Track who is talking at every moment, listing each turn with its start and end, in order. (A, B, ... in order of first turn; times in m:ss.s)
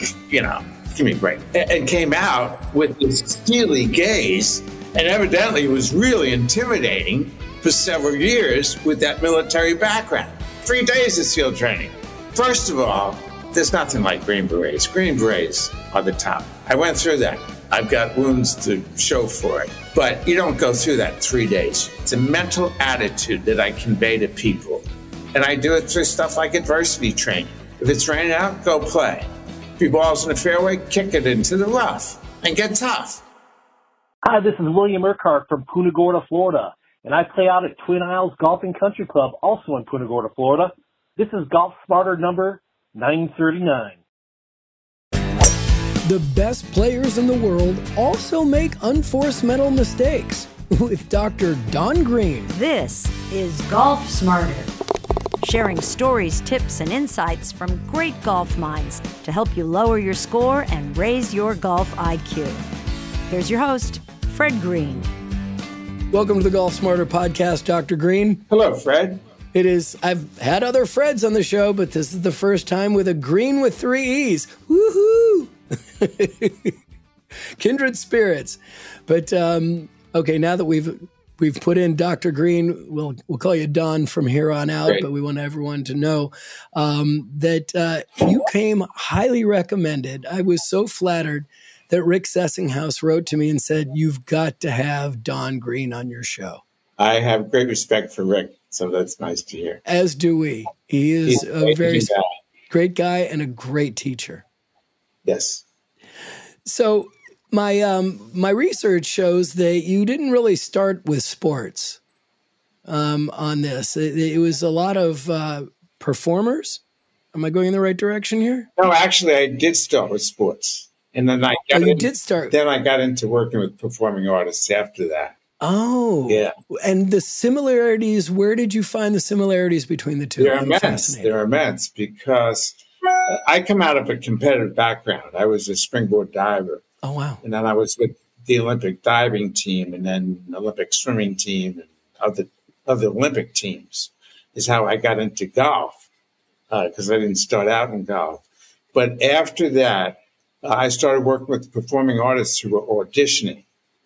0:00.3-0:29.3 A
0:29.8-0:33.2 A
0:34.2-0:44.0 B
0:46.0-0:52.5 C
0:52.5-0:54.7 D
0:55.4-1:02.6 D
1:03.3-1:05.1 D
1:06.1-1:08.4 C
1:08.5-1:09.2 A
1:09.5-1:16.8 C
1:17.6-1:36.6 C
1:37.0-1:39.8 A
1:39.8-1:42.1 C
1:41.3-1:42.3 A
1:42.7-1:44.4 C
1:45.2-1:45.6 A
1:46.6-1:52.0 C
1:52.8-1:56.8 C
1:57.3-1:58.7 C
1:58.8-2:05.4 A
2:01.7-2:02.5 C
2:05.6-2:11.3 C
2:06.3-2:06.5 A
2:10.4-2:16.8 A
2:17.0-2:17.4 C
2:17.4-2:26.0 A
2:26.7-2:28.4 A
2:28.9-2:33.6 A